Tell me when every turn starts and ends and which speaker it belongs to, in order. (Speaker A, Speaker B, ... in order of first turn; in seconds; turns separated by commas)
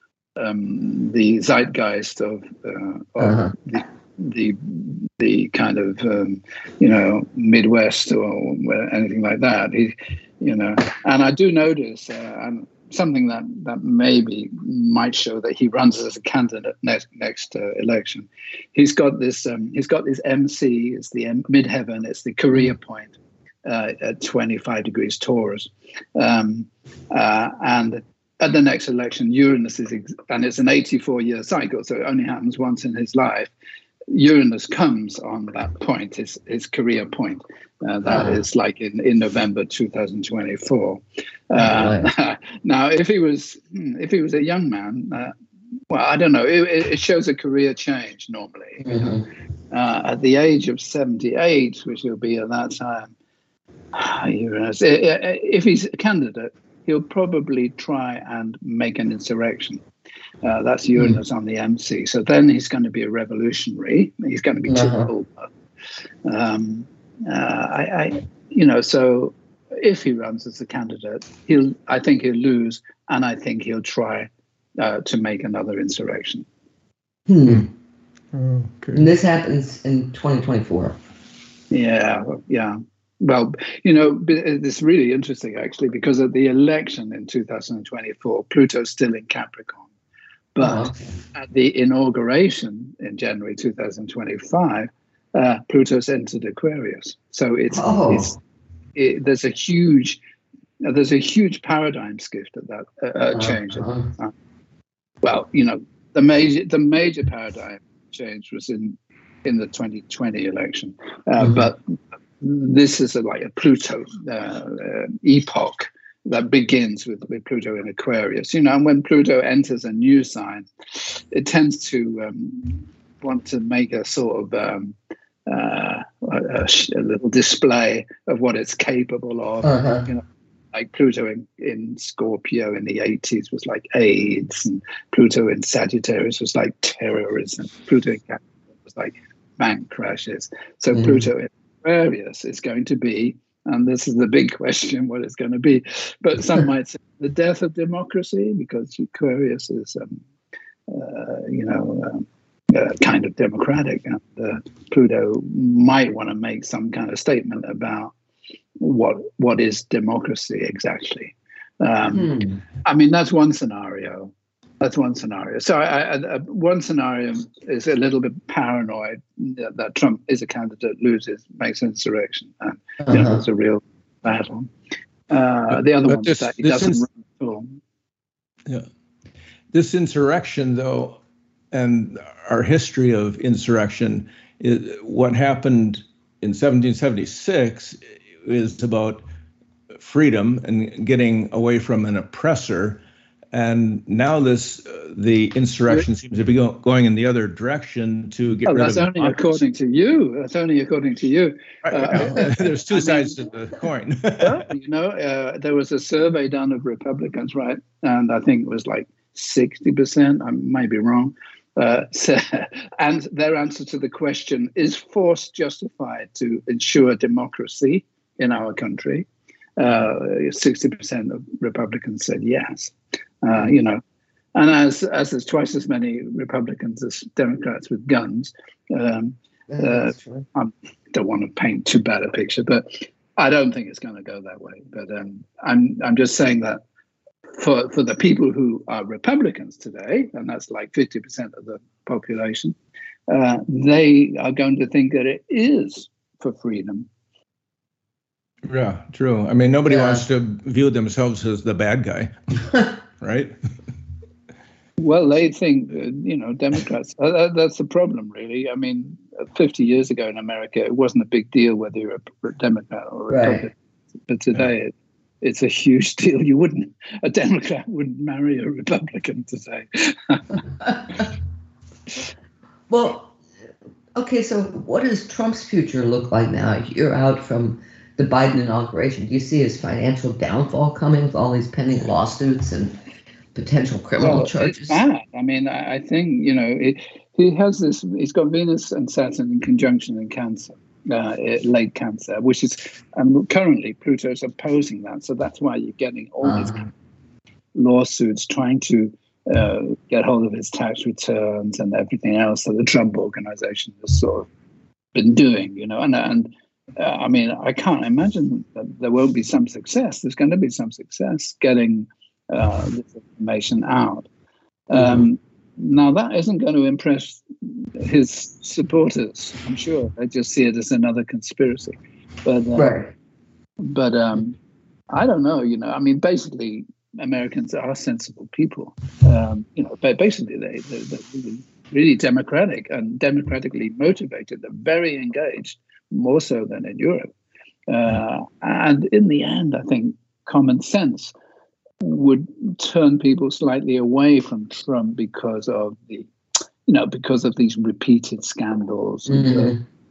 Speaker A: 0.4-23.1, Speaker B: 3.2-3.5, Speaker A: 23.6-33.5, Speaker A: 34.1-45.3, Speaker B: 38.1-38.4, Speaker B: 41.6-42.1, Speaker A: 45.9-49.1, Speaker B: 48.8-49.2, Speaker A: 49.7-53.1, Speaker A: 53.9-59.8, Speaker A: 60.4-65.5, Speaker B: 64.7-65.1, Speaker A: 66.2-76.5, Speaker B: 77.3-77.7, Speaker C: 78.3-79.1, Speaker B: 78.9-81.0, Speaker A: 81.7-89.9, Speaker A: 90.5-98.4, Speaker B: 90.6-91.1, Speaker B: 97.7-98.3, Speaker A: 99.0-100.2, Speaker A: 100.8-104.3, Speaker B: 103.3-104.1, Speaker A: 105.2-125.0, Speaker B: 111.4-111.7, Speaker A: 125.5-150.2, Speaker B: 129.6-130.1, Speaker B: 140.9-141.2, Speaker A: 150.9-158.1, Speaker A: 158.8-174.7, Speaker B: 162.1-162.6, Speaker B: 173.0-173.4, Speaker A: 175.3-177.8, Speaker C: 175.7-177.0, Speaker C: 179.7-181.2, Speaker C: 181.7-189.2, Speaker C: 190.0-193.0, Speaker C: 193.5-199.6, Speaker A: 198.7-203.4, Speaker C: 201.8-204.6, Speaker B: 202.2-202.4, Speaker A: 204.4-224.0, Speaker A: 224.6-236.8, Speaker B: 229.7-230.5, Speaker A: 237.6-242.8, Speaker A: 243.3-247.1, Speaker C: 248.6-253.5, Speaker B: 249.9-250.2, Speaker A: 255.0-263.7, Speaker B: 263.3-263.7, Speaker A: 264.3-270.6, Speaker B: 272.9-273.4, Speaker B: 274.1-283.0, Speaker B: 283.6-285.0, Speaker A: 284.2-296.9, Speaker B: 296.4-296.8, Speaker A: 297.8-304.5, Speaker A: 305.1-314.3, Speaker A: 314.9-322.9, Speaker B: 322.8-323.1, Speaker A: 323.8-324.6, Speaker A: 325.1-337.3, Speaker A: 337.9-341.3, Speaker A: 342.0-346.3, Speaker A: 346.9-349.8, Speaker B: 349.3-349.8